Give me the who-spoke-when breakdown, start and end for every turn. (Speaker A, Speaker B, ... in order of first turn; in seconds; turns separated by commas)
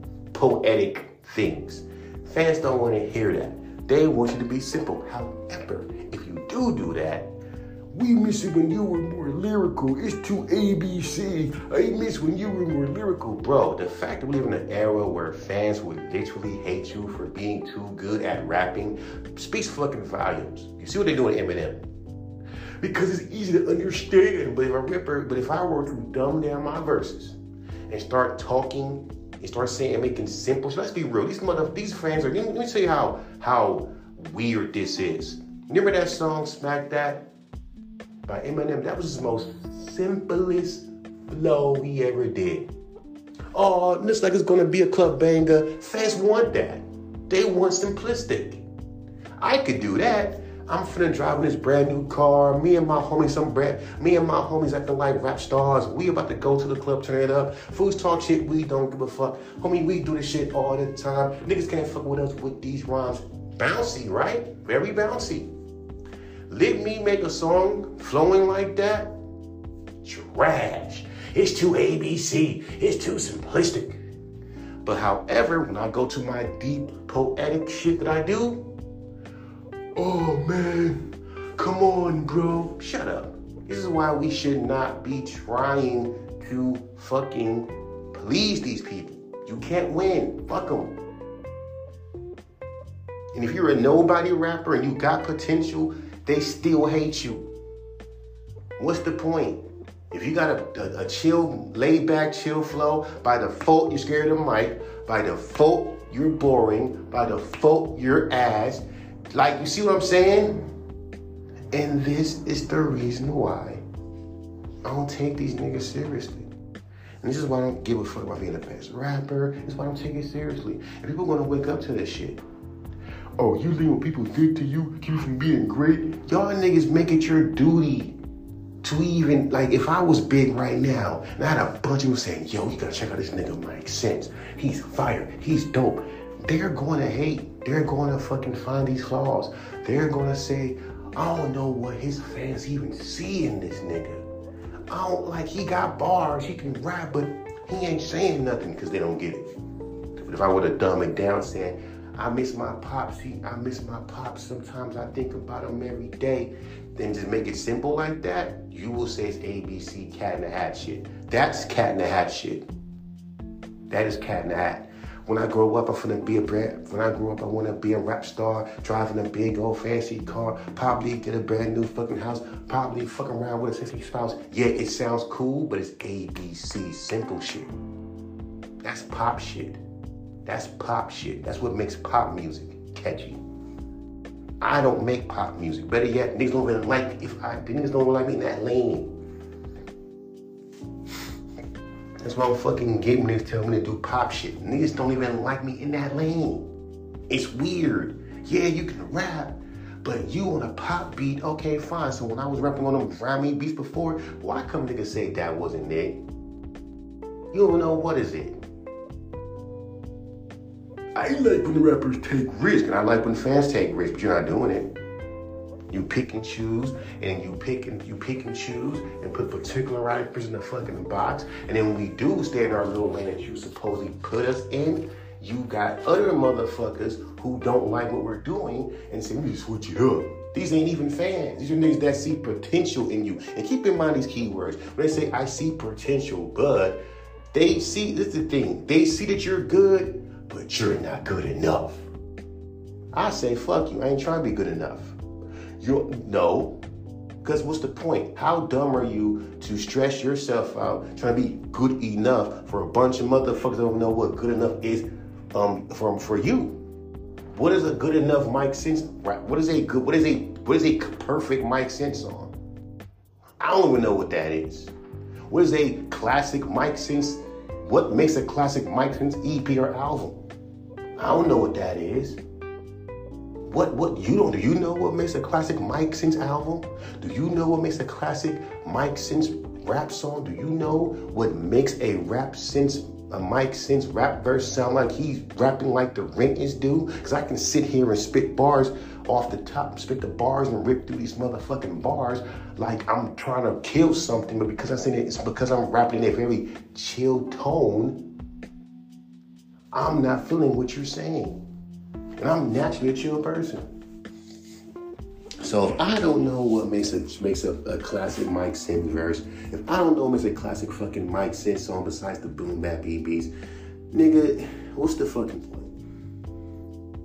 Speaker A: 0.3-7.3, Speaker A: 7.9-21.8, Speaker A: 22.8-27.4, Speaker A: 27.9-37.3, Speaker A: 38.3-42.7, Speaker A: 43.5-48.6, Speaker A: 49.4-65.5, Speaker A: 66.5-69.2, Speaker A: 70.0-74.0, Speaker A: 74.8-78.7, Speaker A: 80.0-91.0, Speaker A: 93.3-97.5, Speaker A: 98.8-110.6, Speaker A: 111.7-113.8, Speaker A: 114.8-116.5, Speaker A: 117.2-122.4, Speaker A: 123.4-128.2, Speaker A: 128.8-144.3, Speaker A: 144.9-149.5, Speaker A: 150.2-162.7, Speaker A: 163.9-177.7, Speaker A: 178.8-179.8, Speaker A: 180.4-183.4, Speaker A: 184.6-189.1, Speaker A: 192.2-196.7, Speaker A: 197.3-206.2, Speaker A: 207.5-208.6, Speaker A: 211.2-214.9, Speaker A: 215.9-237.0, Speaker A: 237.5-242.1, Speaker A: 243.1-245.2, Speaker A: 245.8-246.8, Speaker A: 247.4-256.8, Speaker A: 257.5-262.5, Speaker A: 263.6-264.9, Speaker A: 265.5-270.4, Speaker A: 271.2-272.4, Speaker A: 273.6-298.2, Speaker A: 299.9-301.6, Speaker A: 302.4-303.9, Speaker A: 305.6-313.5, Speaker A: 314.1-315.9